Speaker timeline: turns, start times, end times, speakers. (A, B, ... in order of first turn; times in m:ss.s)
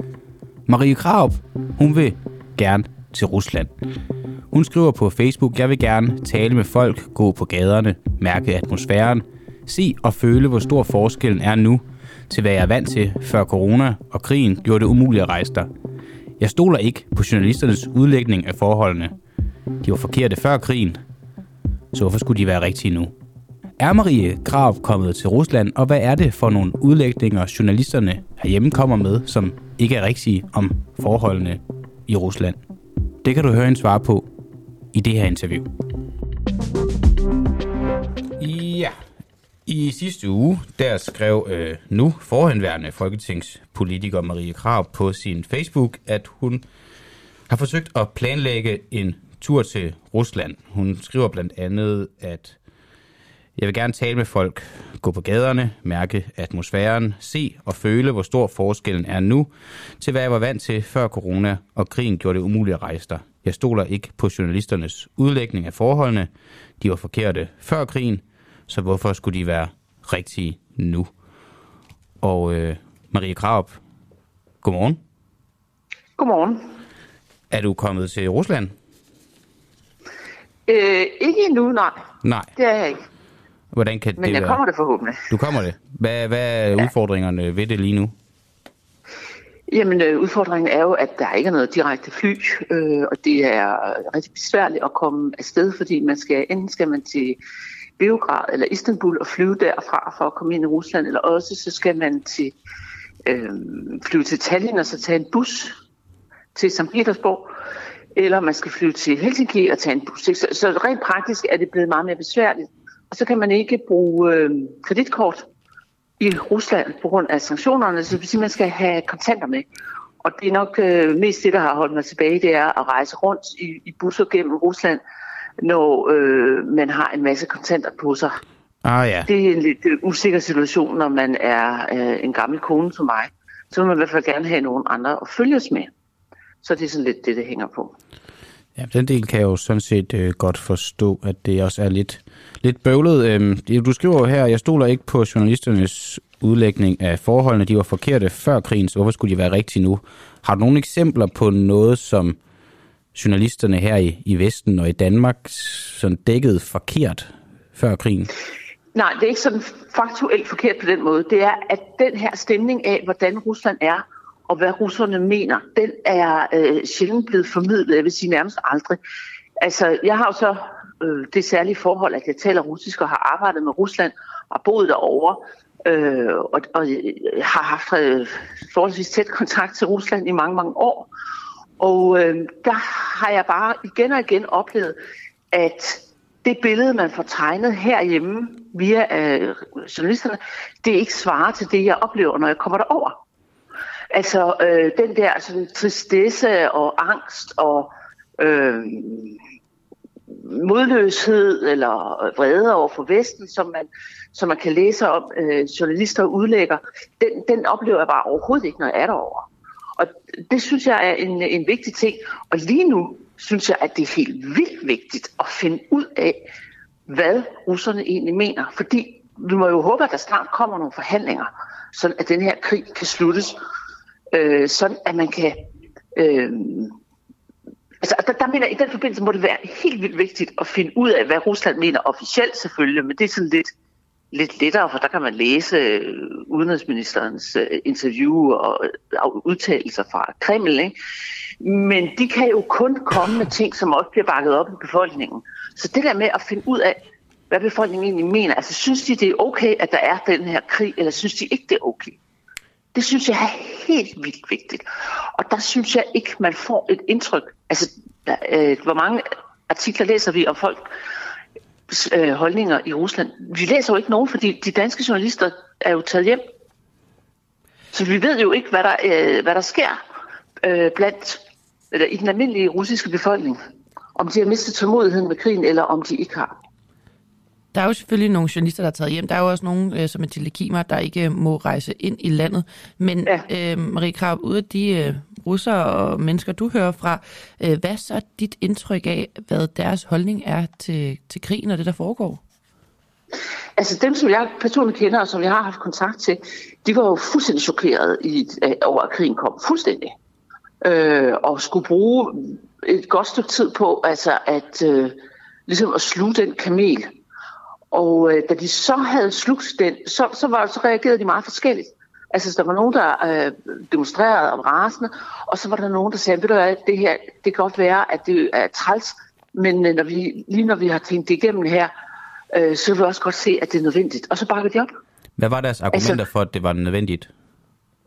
0:00.7-0:03.7 A
0:04.5-0:15.7 A
0:16.4-0:19.2 A
0:19.8-0:21.0 A
0:21.9-0:23.1 A
0:23.8-0:32.6 A
0:33.2-0:34.3 A
0:34.9-0:35.7 A
0:38.4-0:39.0 A
0:39.7-0:46.6 A
0:47.5-0:52.6 A
0:53.6-1:06.3 A
1:06.8-1:11.1 A
1:12.2-1:13.8 A
1:14.6-1:15.0 A
1:16.2-1:16.7 B
1:17.5-1:18.8 A
1:20.7-1:22.0 B
1:22.2-1:22.5 A
1:22.6-1:23.0 B
1:23.7-1:24.6 A
1:24.2-1:25.3 B
1:25.3-1:28.1 A
1:29.7-1:37.4 B
1:38.0-1:42.6 B
1:43.3-1:45.7 B
1:46.6-1:47.5 B
1:48.2-1:55.5 B
1:56.2-1:59.6 B
2:00.2-2:05.0 B
2:05.6-2:08.4 B
2:08.8-2:09.3 A
2:09.3-2:15.9 B
2:16.6-2:18.0 B
2:18.8-2:32.4 A
2:33.1-2:38.3 A
2:38.9-2:49.0 B
2:49.6-3:01.1 B
3:01.8-3:05.0 B
3:05.5-3:13.2 B
3:14.1-3:19.4 B
3:20.3-3:36.5 B
3:37.1-3:43.6 B
3:44.3-3:45.6 B
3:46.2-3:47.0 B
3:48.0-3:53.7 B
3:54.3-4:00.9 B
4:01.6-4:07.0 B
4:07.5-4:12.2 B
4:12.9-4:14.8 B
4:15.4-4:20.9 B
4:21.9-4:26.5 B
4:27.9-4:30.0 B
4:30.6-4:33.6 B
4:34.2-4:36.5 B
4:37.7-4:52.4 C
4:53.8-5:00.1 B
5:00.8-5:07.1 B
5:07.9-5:21.9 B
5:22.5-5:24.9 B
5:25.4-5:27.3 A
5:25.9-5:26.2 B